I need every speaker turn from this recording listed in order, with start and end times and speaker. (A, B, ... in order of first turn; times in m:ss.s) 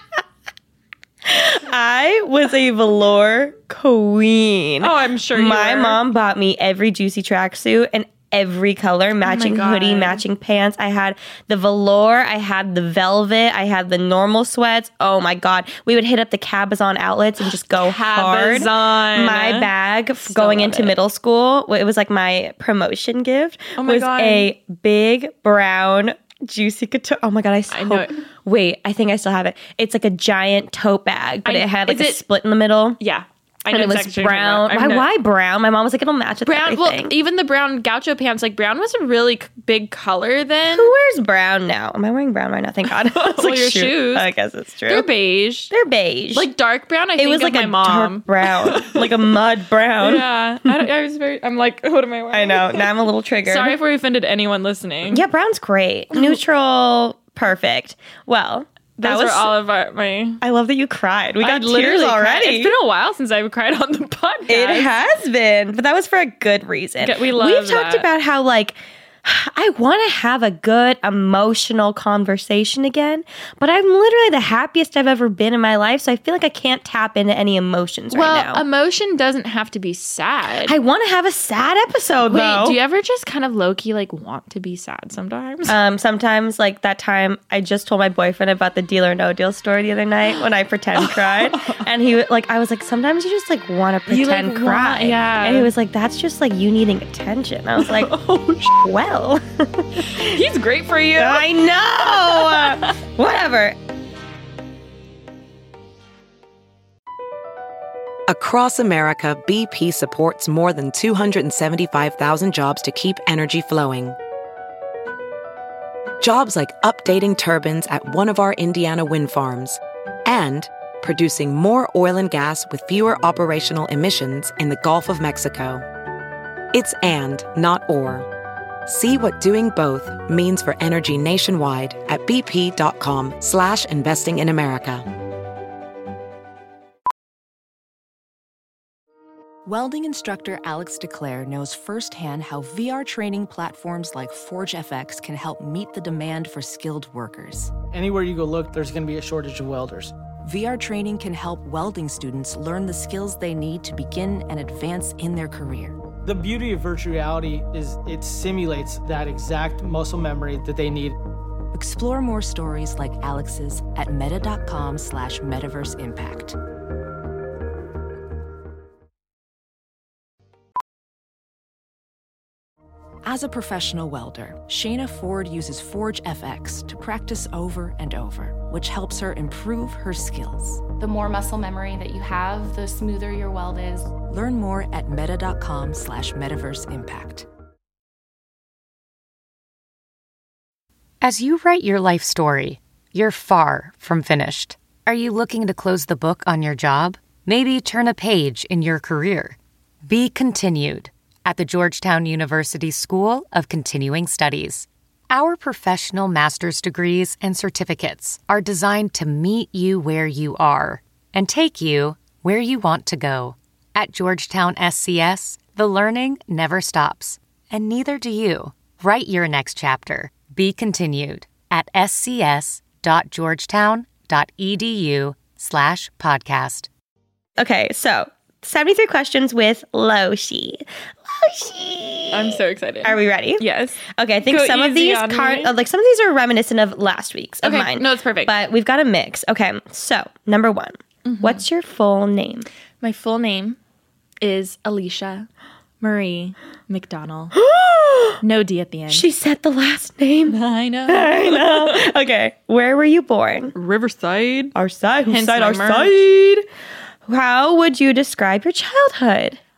0:01.2-0:33.0 A
0:04.8-0:06.0 B
0:09.2-0:10.2 B
0:17.7-0:19.7 B
0:20.2-0:21.0 B
0:23.8-0:24.5 B
0:27.7-0:28.2 B
0:31.4-0:32.2 B
0:33.0-0:35.1 B
0:33.7-0:37.1 A
0:36.4-0:40.9 B
0:40.7-0:45.1 A
0:43.1-0:44.3 B
0:44.9-0:45.7 B
0:45.7-0:46.5 A
0:46.3-0:49.1 B
0:47.2-0:50.8 A
0:50.0-0:52.9 B
0:52.3-0:53.8 A
0:53.4-0:55.2 B
0:55.1-0:59.5 A
0:59.0-1:00.4 B
1:00.4-1:02.7 A
1:01.4-1:04.9 B
1:04.5-1:18.6 A
1:07.0-1:08.1 B
1:18.1-1:20.8 B
1:20.6-1:22.8 A
1:22.3-1:25.8 B
1:25.7-1:38.2 A
1:31.0-1:31.8 B
1:34.1-1:35.7 B
1:37.8-1:38.8 B
1:38.7-1:40.4 A
1:40.0-1:43.0 B
1:41.2-1:43.8 A
1:48.3-1:54.2 C
1:56.2-2:05.8 C
2:06.7-2:08.3 C
2:08.9-2:15.1 C
2:19.6-2:27.8 D
2:27.9-2:30.1 E
2:30.4-2:36.0 D
2:36.2-2:41.2 E
2:41.7-2:46.6 D
2:53.2-3:00.9 D
3:01.0-3:04.2 F
3:04.2-3:07.5 D
3:11.2-3:46.9 G
3:47.6-4:02.7 A
3:52.3-3:55.7 B
3:57.6-3:58.5 B
4:01.2-4:01.6 B
4:03.0-4:03.8 B
4:04.4-4:05.5 B
4:06.0-4:07.6 B
4:07.6-4:08.4 A
4:08.4-4:09.3 B
4:09.1-4:13.7 A
4:10.5-4:12.1 B
4:13.7-4:14.8 B
4:14.8-4:16.7 A
4:15.3-4:16.3 B
4:17.3-4:19.6 A